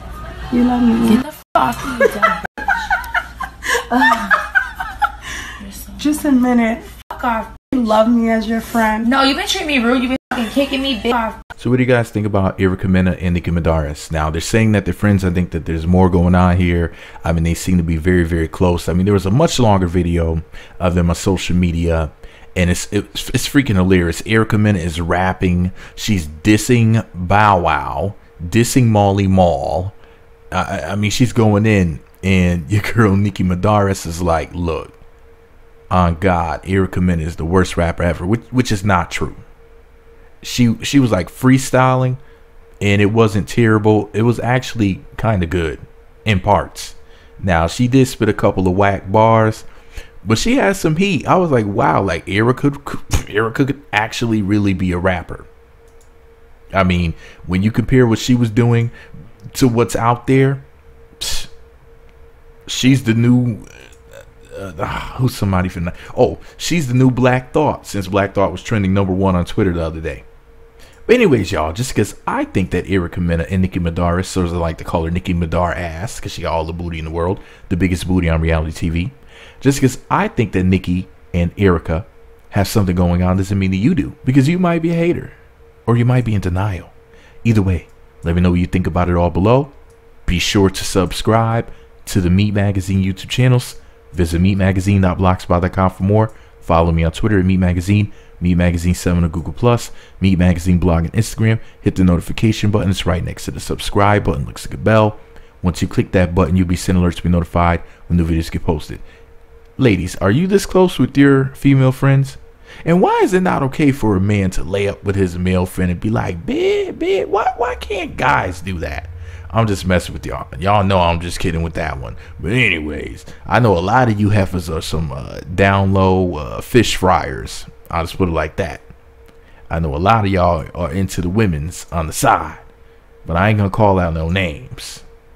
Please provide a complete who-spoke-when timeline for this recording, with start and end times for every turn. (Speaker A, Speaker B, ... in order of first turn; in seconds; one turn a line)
Speaker A: 0.5-1.2
Speaker B: 1.1-2.6
Speaker A: 3.9-4.2
Speaker B: 3.9-4.4
Speaker B: 5.6-6.3
Speaker A: 6.0-6.9
Speaker B: 7.1-7.5
Speaker A: 7.6-9.1
Speaker B: 9.0-11.4
Speaker C: 11.6-29.9
Speaker C: 30.5-35.0
Speaker C: 35.9-39.4
Speaker C: 40.4-42.2
Speaker C: 42.8-49.7
Speaker C: 50.2-55.5
Speaker C: 56.7-58.9
Speaker C: 59.5-60.6
Speaker C: 61.2-61.5
Speaker C: 62.7-63.7
Speaker C: 64.5-70.2
Speaker C: 71.1-85.3
Speaker C: 85.9-86.9
Speaker C: 87.4-89.7
Speaker C: 90.3-109.0
Speaker C: 109.8-128.8
Speaker C: 129.7-132.6
Speaker C: 133.3-135.1